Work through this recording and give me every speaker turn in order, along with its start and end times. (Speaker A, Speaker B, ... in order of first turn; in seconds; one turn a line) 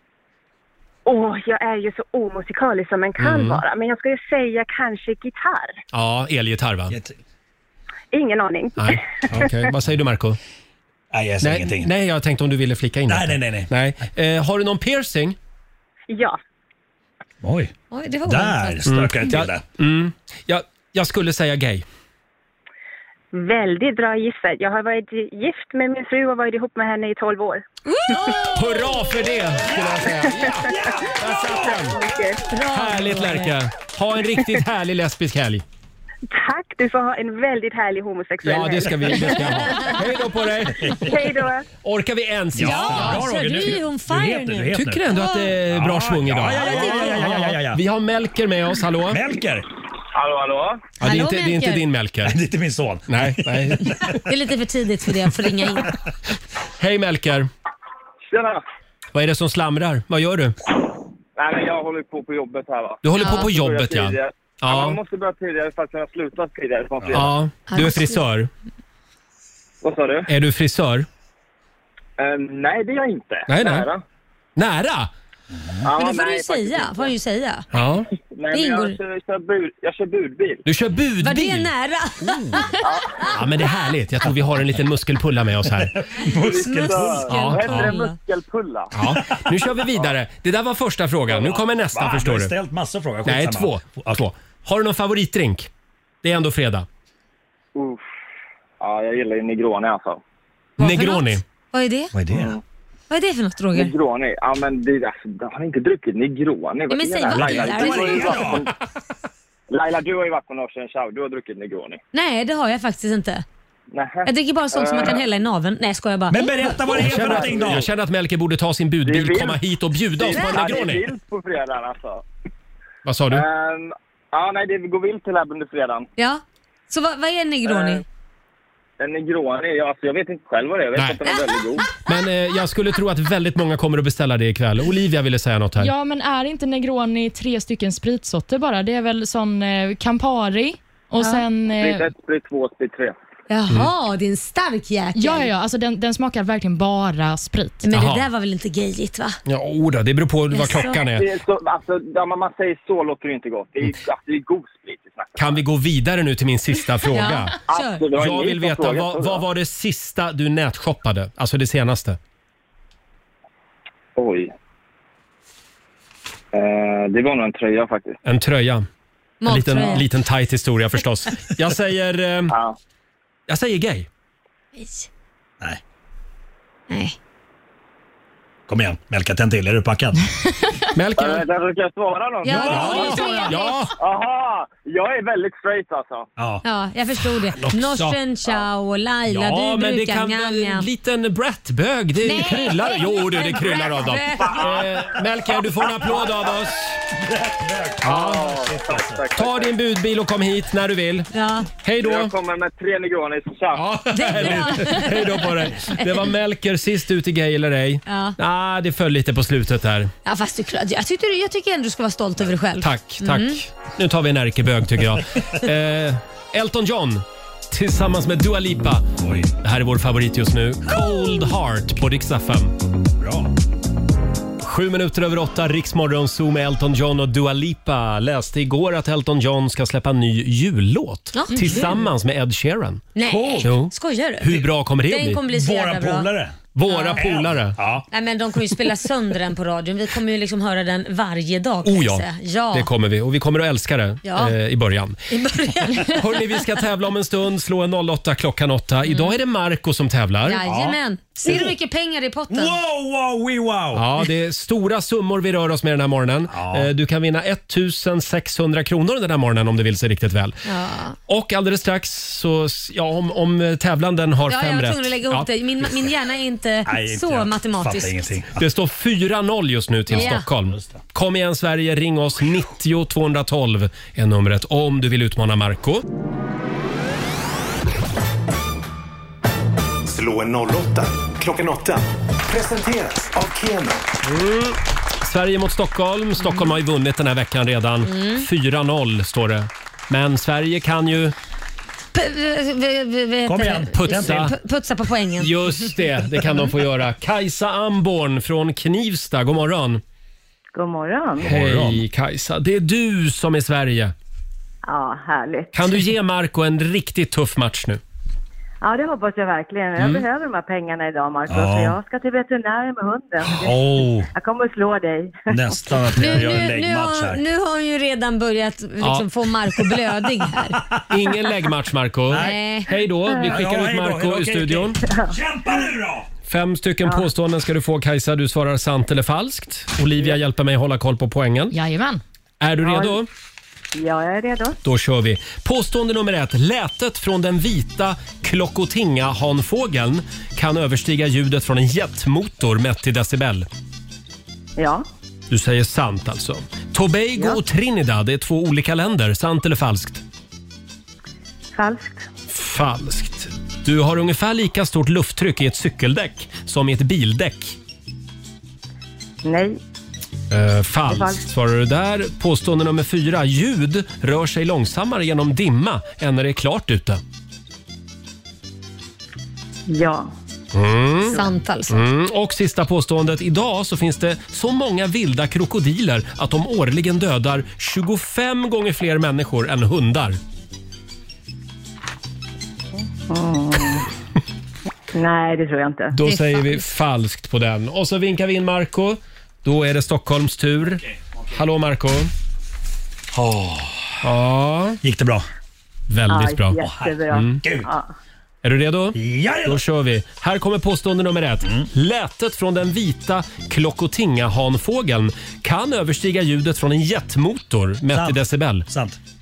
Speaker A: 1.1-5.7
Speaker B: 3.2-3.6
Speaker B: 5.9-7.0
Speaker C: 6.9-7.2
Speaker A: 8.1-9.0
Speaker B: 8.8-10.4
Speaker C: 11.1-11.9
Speaker B: 11.4-15.4
Speaker C: 13.1-13.7
Speaker A: 16.1-16.4
Speaker C: 17.4-17.7
Speaker D: 17.9-18.9
Speaker C: 18.2-19.6
Speaker B: 18.9-21.8
Speaker A: 23.3-27.6
Speaker D: 27.9-28.9
Speaker B: 28.5-32.0
Speaker C: 29.6-32.0
Speaker A: 30.3-30.9
Speaker A: 31.9-32.4
Speaker D: 32.5-33.5
Speaker B: 32.6-35.6
Speaker A: 36.3-39.9
Speaker B: 38.4-41.2
Speaker A: 41.0-41.6
Speaker B: 41.8-43.3
Speaker C: 42.5-45.0
Speaker D: 42.6-45.5
Speaker B: 44.7-49.2
Speaker C: 45.7-47.8
Speaker D: 46.6-47.3
Speaker C: 49.1-49.6
Speaker E: 50.1-50.9
Speaker B: 51.0-52.4
Speaker D: 51.0-51.9
Speaker C: 52.2-54.2
Speaker B: 53.1-54.0
Speaker D: 54.2-55.9
Speaker B: 56.8-57.5
Speaker E: 58.3-58.6
Speaker B: 59.1-60.6
Speaker E: 61.4-67.3
Speaker B: 63.0-65.0
Speaker D: 63.2-63.5
Speaker C: 67.0-67.3
Speaker B: 67.1-68.5
Speaker D: 67.7-68.2
Speaker E: 69.8-70.3
Speaker B: 70.3-71.1
Speaker E: 72.2-74.0
Speaker B: 73.5-73.9
Speaker B: 74.5-75.1
Speaker C: 75.5-75.8
Speaker E: 75.8-77.1
Speaker D: 75.9-77.7
Speaker B: 77.7-78.1
Speaker E: 78.4-80.6
Speaker D: 78.5-79.0
Speaker B: 80.6-81.7
Speaker D: 81.2-83.3
Speaker E: 82.8-83.3
Speaker B: 83.2-86.0
Speaker C: 85.8-87.3
Speaker E: 86.3-89.0
Speaker D: 86.5-88.2
Speaker B: 87.3-87.9
Speaker B: 88.9-92.5
Speaker C: 91.9-94.2
Speaker B: 93.2-95.7
Speaker B: 96.2-96.9
Speaker E: 97.8-98.0
Speaker E: 98.8-100.2
Speaker B: 100.8-101.4
Speaker D: 100.8-102.1
Speaker C: 102.1-102.5
Speaker E: 102.3-102.6
Speaker D: 103.1-103.9
Speaker E: 103.7-108.7
Speaker D: 106.9-108.6
Speaker C: 107.3-108.7
Speaker E: 109.7-112.0
Speaker D: 112.1-113.4
Speaker E: 113.9-115.2
Speaker D: 114.2-117.0
Speaker C: 116.3-117.8
Speaker B: 116.9-121.1
Speaker E: 117.1-117.8
Speaker E: 119.0-119.6
Speaker E: 120.2-122.2
Speaker B: 123.0-123.4
Speaker E: 123.3-126.1
Speaker D: 126.2-128.0
Speaker E: 127.7-128.0
Speaker E: 129.0-131.8
Speaker B: 130.9-131.2
Speaker D: 131.2-131.9
Speaker B: 132.0-135.9
Speaker F: 135.8-142.1
Speaker D: 141.2-141.4
Speaker E: 141.8-143.2
Speaker D: 143.5-145.5
Speaker F: 145.1-147.9
Speaker D: 147.8-149.4
Speaker B: 147.9-148.3
Speaker B: 149.4-151.3
Speaker D: 150.5-151.0
Speaker E: 151.1-155.6
Speaker B: 155.3-157.6
Speaker D: 157.1-158.1
Speaker E: 157.7-159.4
Speaker B: 158.1-162.2
Speaker E: 164.2-164.5
Speaker E: 166.5-168.2
Speaker B: 168.2-168.8
Speaker D: 169.4-170.1
Speaker B: 169.4-172.6
Speaker E: 172.5-172.8
Speaker B: 173.5-174.1
Speaker D: 174.8-175.1
Speaker D: 176.9-177.2
Speaker C: 178.7-180.2
Speaker B: 180.9-181.4
Speaker E: 181.2-183.2
Speaker D: 182.4-183.9
Speaker C: 182.5-183.5
Speaker B: 182.6-183.9
Speaker E: 184.0-186.3
Speaker C: 186.4-186.6
Speaker D: 186.6-190.9
Speaker B: 187.6-188.2
Speaker B: 189.3-197.0
Speaker D: 192.2-194.7
Speaker E: 194.4-194.8
Speaker C: 197.1-199.2
Speaker B: 198.0-198.5
Speaker E: 198.1-199.7
Speaker B: 199.3-201.3
Speaker D: 201.3-201.7
Speaker B: 201.8-202.3
Speaker E: 202.0-203.8
Speaker B: 203.7-210.1
Speaker D: 204.1-206.3
Speaker D: 208.1-208.4
Speaker D: 210.2-213.6
Speaker B: 212.8-219.1
Speaker C: 219.2-219.5
Speaker B: 219.6-222.7
Speaker C: 223.2-223.5
Speaker B: 224.6-233.0
Speaker D: 231.3-232.1
Speaker D: 233.1-236.3
Speaker C: 233.2-233.8
Speaker B: 233.6-235.4
Speaker C: 235.5-236.6
Speaker B: 236.7-237.8
Speaker D: 236.8-237.2
Speaker C: 237.1-238.1
Speaker D: 238.1-242.9
Speaker B: 241.8-245.2
Speaker D: 244.2-244.5
Speaker D: 245.3-246.6
Speaker B: 245.9-250.6
Speaker D: 249.1-249.3
Speaker D: 250.4-252.8
Speaker C: 250.6-251.7
Speaker C: 252.5-254.1
Speaker B: 253.9-260.6
Speaker C: 256.5-256.9
Speaker D: 260.6-261.2
Speaker B: 261.3-265.5
Speaker D: 264.5-268.2
Speaker C: 266.9-268.6
Speaker B: 268.6-276.0
Speaker D: 270.1-270.5
Speaker C: 270.2-270.9
Speaker G: 280.1-284.0
Speaker B: 284.2-291.3
Speaker D: 288.1-288.4
Speaker D: 292.1-295.9
Speaker C: 293.4-294.5
Speaker B: 293.9-294.5
Speaker B: 295.4-300.0
Speaker H: 300.7-301.6
Speaker C: 301.4-302.0
Speaker B: 301.4-304.1
Speaker H: 304.8-306.1
Speaker B: 305.7-308.0
Speaker H: 308.8-315.8
Speaker B: 310.0-310.2
Speaker C: 311.5-312.0
Speaker C: 313.5-314.3
Speaker C: 315.5-317.4
Speaker D: 316.1-320.8
Speaker B: 319.0-319.3
Speaker B: 321.1-325.0
Speaker C: 322.3-322.6
Speaker D: 322.4-322.9
Speaker C: 323.4-326.3
Speaker H: 325.1-325.8
Speaker B: 326.5-331.7
Speaker H: 327.0-327.3
Speaker F: 331.7-332.2
Speaker B: 332.6-333.3
Speaker H: 332.8-333.2
Speaker H: 333.9-334.8
Speaker B: 334.8-343.7
Speaker H: 344.8-345.0
Speaker B: 345.5-350.2
Speaker H: 351.7-352.2
Speaker B: 352.5-357.8
Speaker H: 359.4-359.8
Speaker B: 360.5-367.2
Speaker H: 361.1-361.4
Speaker H: 369.9-370.3
Speaker B: 370.7-380.4
Speaker D: 371.3-372.0
Speaker H: 383.3-384.0
Speaker H: 385.1-386.2
Speaker B: 386.1-392.3
Speaker D: 386.2-386.9
Speaker C: 393.3-394.3
Speaker B: 394.2-395.0
Speaker C: 395.0-395.4
Speaker B: 396.1-397.6
Speaker H: 396.3-398.1
Speaker C: 396.8-397.9
Speaker B: 398.6-408.9
Speaker C: 399.1-399.8
Speaker C: 408.1-409.2